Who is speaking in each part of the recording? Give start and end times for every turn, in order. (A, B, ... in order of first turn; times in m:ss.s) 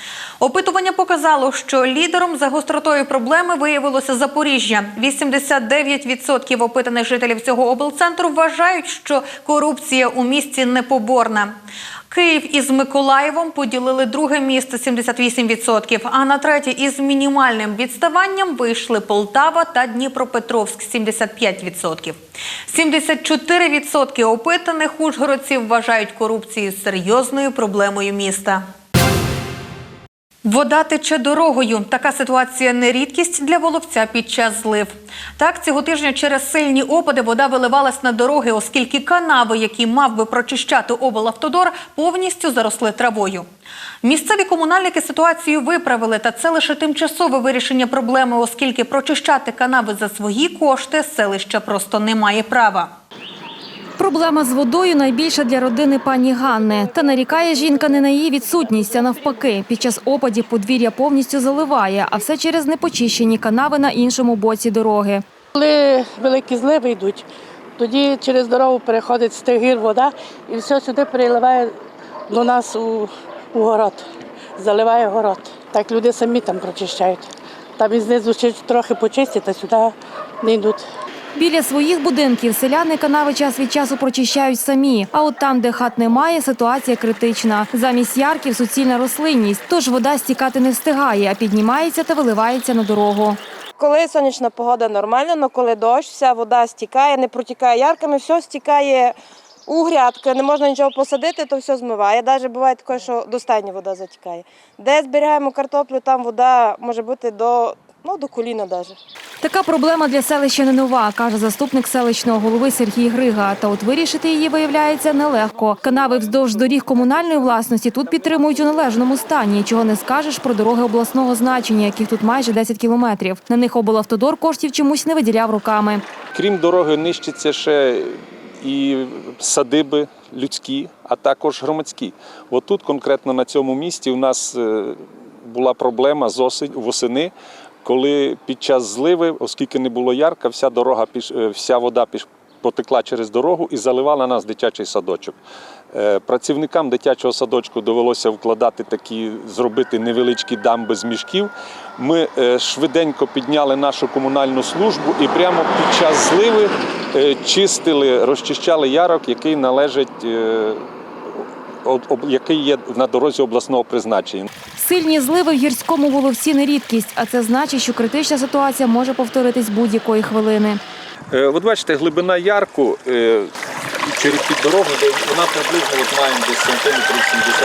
0:00.4-0:11.6 A
0:12.1-0:28.6 A
0:30.4-0:43.5 A
0:44.0-0:52.9 A
0:54.0-1:05.2 B
1:05.5-1:07.2 C
1:07.8-1:11.8 C
1:12.3-1:14.0 C
1:14.6-1:17.2 C
1:17.8-1:20.8 C
1:21.4-1:33.4 B
1:33.8-1:39.1 D
1:39.7-1:49.0 D
1:49.4-2:06.0 B
2:06.4-2:07.7 E
2:10.4-2:14.2 E
2:15.6-2:17.3 E
2:17.9-2:22.2 E
2:22.7-2:24.6 E
2:26.3-2:28.6 E
2:29.5-2:31.4 E
2:32.9-2:36.6 E
2:38.2-2:39.4 E
2:42.0-2:44.4 E
2:44.8-2:50.8 B
2:51.4-2:53.0 E
2:54.2-2:55.0 E